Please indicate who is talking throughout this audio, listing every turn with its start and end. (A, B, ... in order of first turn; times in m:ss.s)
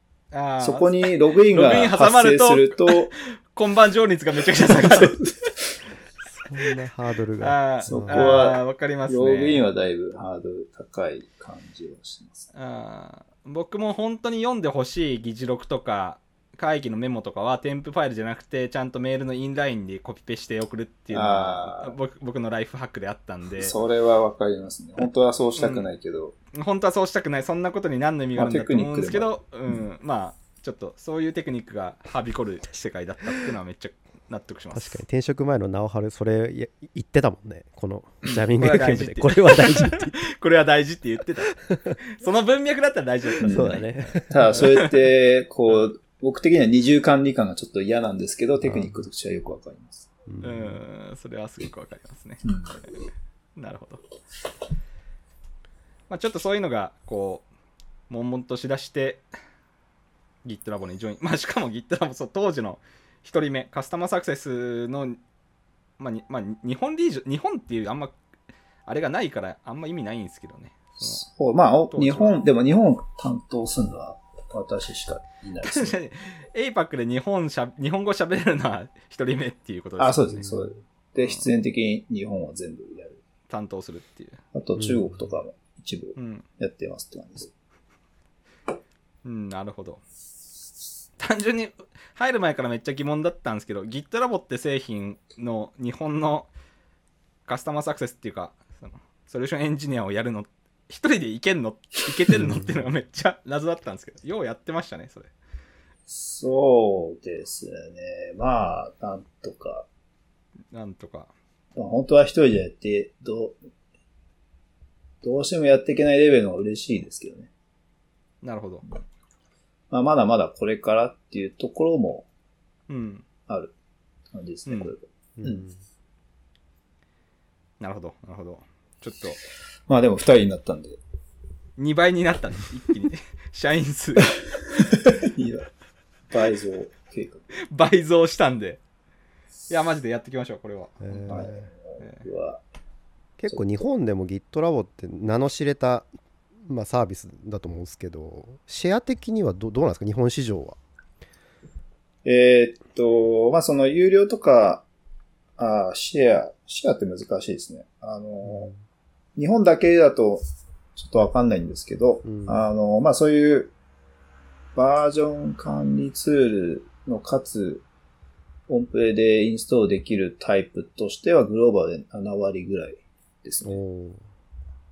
0:00.3-0:05.2 A
0:00.6-0:03.1 B
0:04.7-0:05.5 B
0:06.3-0:08.3 C
0:07.4-0:09.6 A
0:07.8-0:12.5 B
0:12.5-0:23.7 A
0:21.1-0:22.0 B
0:23.6-0:26.3 B
0:25.6-0:25.9 A
0:26.5-0:35.0 A
0:28.4-0:29.3 B
0:34.7-0:40.2 C
0:38.2-0:44.9 A
0:41.6-0:42.0 C
0:43.4-0:50.1 B
0:43.4-0:44.7 C
0:48.6-0:49.0 C
0:50.3-0:50.8 C
0:50.4-0:52.5 A
0:52.4-0:52.8 B
0:53.6-0:54.0 A
0:56.1-0:57.5 A
0:58.1-0:59.2 A
1:00.4-1:05.2 A
1:06.0-1:08.1 A
1:08.8-1:11.2 A
1:11.0-1:16.0 B
1:11.9-1:12.3 A
1:15.6-1:20.4 A
1:20.0-1:23.2 B
1:23.5-1:24.4 A
1:24.5-1:27.5 B
1:24.8-1:25.0 C
1:26.2-1:26.4 A
1:29.2-1:30.0 A
1:31.2-1:36.5 A
1:37.4-1:45.3 A
1:42.3-1:42.8 C
1:46.1-1:49.9 B
1:50.7-1:51.3 A
1:51.8-1:53.6 B
1:55.2-1:57.5 B
1:58.4-1:58.8 A
1:59.9-2:02.3 B
2:02.9-2:03.2 A
2:03.5-2:03.7 B
2:04.3-2:05.7 B
2:04.7-2:04.9 A
2:05.4-2:05.7 C
2:07.8-2:09.4 A
2:09.9-2:11.0 B
2:11.8-2:14.7 A
2:14.7-2:15.7 B
2:16.3-2:17.5 B
2:17.6-2:18.8 A
2:19.7-2:21.4 A
2:21.0-2:21.7 C
2:21.3-2:22.6 B
2:23.4-2:26.1 C
2:26.6-2:30.8 C
2:32.2-2:34.8 B
2:35.6-2:38.7 B
2:38.4-2:38.7 C
2:39.4-2:40.4 B
2:41.0-2:43.7 B
2:42.3-2:42.6 C
2:44.8-2:47.8 B
2:48.7-2:53.8 B
2:53.6-2:54.2 C